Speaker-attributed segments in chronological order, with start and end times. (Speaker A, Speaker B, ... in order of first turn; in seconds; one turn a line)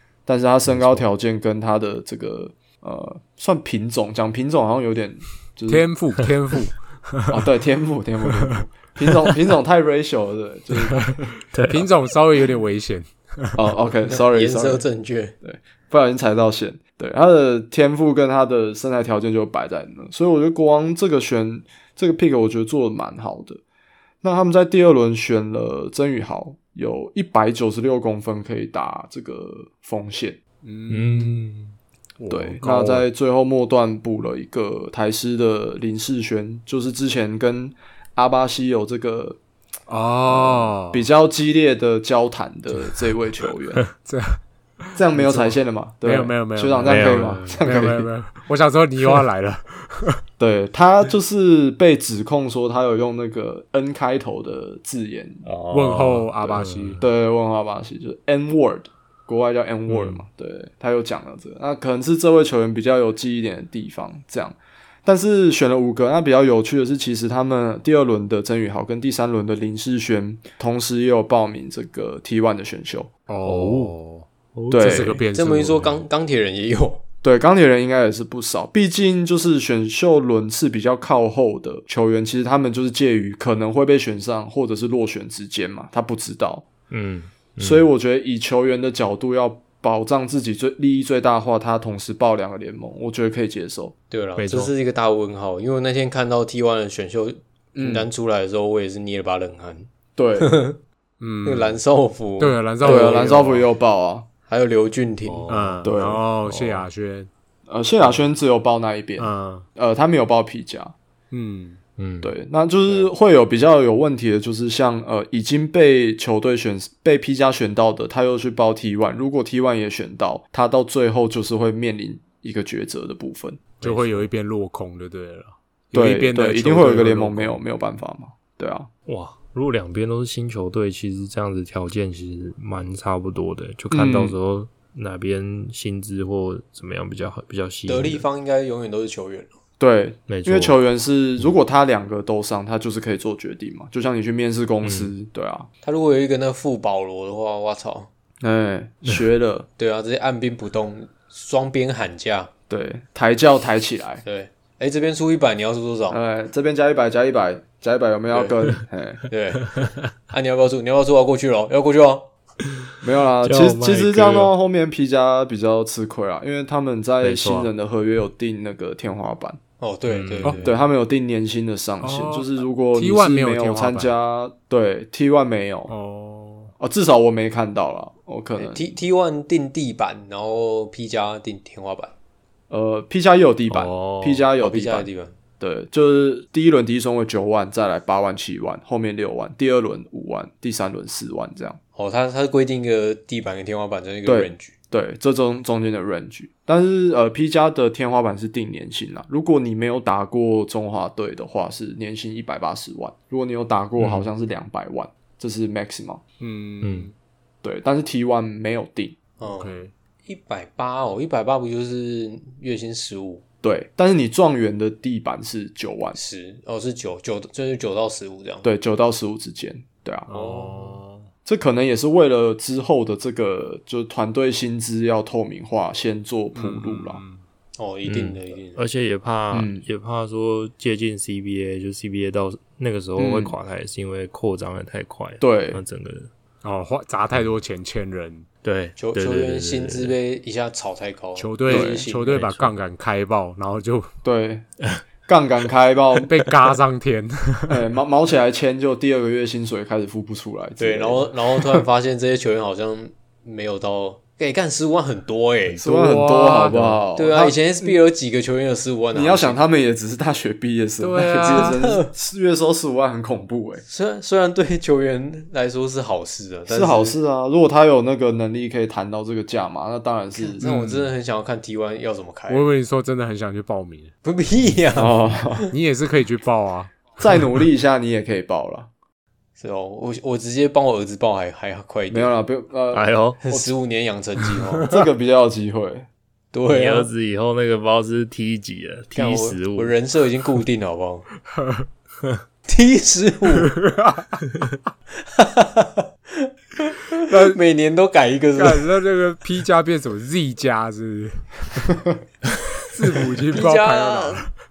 Speaker A: 0.3-5.9
Speaker B: 0.7-1.0
Speaker C: 5.7-7.5
Speaker A: 7.3-11.3
Speaker B: 11.5-11.9
Speaker C: 11.7-13.6
Speaker A: 13.6-14.8
Speaker D: 14.1-15.3
Speaker A: 15.4-23.6
Speaker A: 24.2-30.4
Speaker C: 30.6-31.5
Speaker B: 30.9-31.7
Speaker C: 32.2-33.1
Speaker A: 32.3-39.4
Speaker C: 39.9-41.1
Speaker A: 40.3-43.9
Speaker C: 44.0-50.2
Speaker A: 45.0-48.1
Speaker B: 46.8-47.6
Speaker A: 50.4-55.4
Speaker B: 55.4-57.0
Speaker C: 55.7-57.0
Speaker A: 57.0-73.1
Speaker B: 59.9-60.2
Speaker C: 73.3-76.0
Speaker B: 73.4-73.9
Speaker B: 74.5-75.2
Speaker A: 74.7-75.2
Speaker D: 75.3-77.0
Speaker A: 77.2-86.7
Speaker B: 86.9-87.9
Speaker A: 87.6-93.9
Speaker D: 94.1-100.8
Speaker B: 94.4-94.7
Speaker A: 97.8-98.1
Speaker A: 100.2-100.6
Speaker C: 101.2-101.8
Speaker D: 101.4-103.6
Speaker C: 102.4-103.7
Speaker A: 102.8-104.3
Speaker D: 104.5-105.4
Speaker B: 105.2-106.9
Speaker C: 105.5-107.3
Speaker A: 105.8-106.2
Speaker A: 107.7-110.9
Speaker C: 109.2-109.7
Speaker C: 111.3-111.8
Speaker B: 112.0-112.3
Speaker A: 112.2-123.7
Speaker B: 123.8-124.3
Speaker C: 123.8-127.6
Speaker A: 125.9-128.9
Speaker B: 129.1-138.2
Speaker A: 133.9-134.4
Speaker D: 137.9-139.6
Speaker A: 139.8-145.7
Speaker B: 140.3-140.8
Speaker B: 144.8-145.1
Speaker D: 145.8-148.1
Speaker A: 148.4-149.7
Speaker D: 149.8-152.5
Speaker A: 152.7-154.2
Speaker D: 154.2-156.2
Speaker A: 156.1-159.2
Speaker D: 158.3-158.6
Speaker D: 159.3-162.3
Speaker A: 163.0-169.6
Speaker B: 163.4-164.5
Speaker B: 167.2-167.7
Speaker D: 169.8-170.8
Speaker B: 170.1-170.6
Speaker A: 170.6-175.9
Speaker C: 172.0-174.1
Speaker C: 175.9-176.7
Speaker A: 176.8-178.9
Speaker D: 178.6-182.1
Speaker A: 182.7-185.1
Speaker B: 183.7-184.5
Speaker D: 184.6-185.3
Speaker A: 185.6-191.8
Speaker D: 191.9-194.7
Speaker A: 194.2-206.2
Speaker C: 204.0-204.3
Speaker C: 206.4-207.1
Speaker B: 206.8-207.1
Speaker A: 207.6-209.2
Speaker D: 209.4-213.4
Speaker C: 209.4-209.9
Speaker A: 213.6-216.2
Speaker D: 216.1-218.7
Speaker A: 218.6-220.3
Speaker C: 220.3-221.3
Speaker D: 220.3-221.0
Speaker A: 221.4-227.2
Speaker C: 226.5-227.4
Speaker D: 227.8-228.8
Speaker B: 228.0-236.3
Speaker A: 229.5-229.8
Speaker A: 233.2-233.6
Speaker A: 235.4-235.8
Speaker C: 236.6-238.5
Speaker B: 238.6-240.2
Speaker D: 239.0-242.7
Speaker C: 241.3-244.1
Speaker A: 241.7-242.0
Speaker B: 242.4-242.7
Speaker A: 244.2-244.7
Speaker A: 245.3-246.3
Speaker C: 246.2-247.9
Speaker A: 247.7-251.8
Speaker D: 250.8-255.8
Speaker A: 255.8-258.0
Speaker C: 255.8-257.0
Speaker D: 257.1-259.6
Speaker A: 259.1-263.8
Speaker C: 261.0-261.8
Speaker D: 261.4-262.1
Speaker D: 263.9-267.2
Speaker A: 266.7-270.7
Speaker D: 270.4-272.7
Speaker C: 270.6-271.1
Speaker C: 272.5-274.1
Speaker D: 274.2-275.6
Speaker A: 274.9-275.7
Speaker C: 275.7-277.1
Speaker A: 277.2-278.9
Speaker D: 279.6-282.3
Speaker A: 282.1-283.7
Speaker B: 282.9-283.4
Speaker D: 283.4-285.1
Speaker A: 284.8-286.1
Speaker D: 286.5-287.1
Speaker B: 286.7-289.9
Speaker D: 289.1-291.2
Speaker C: 291.6-291.9
Speaker D: 292.6-293.7
Speaker C: 293.6-294.4
Speaker D: 295.2-298.9
Speaker C: 297.3-297.6
Speaker C: 298.6-301.9
Speaker C: 302.8-304.5
Speaker D: 303.5-304.4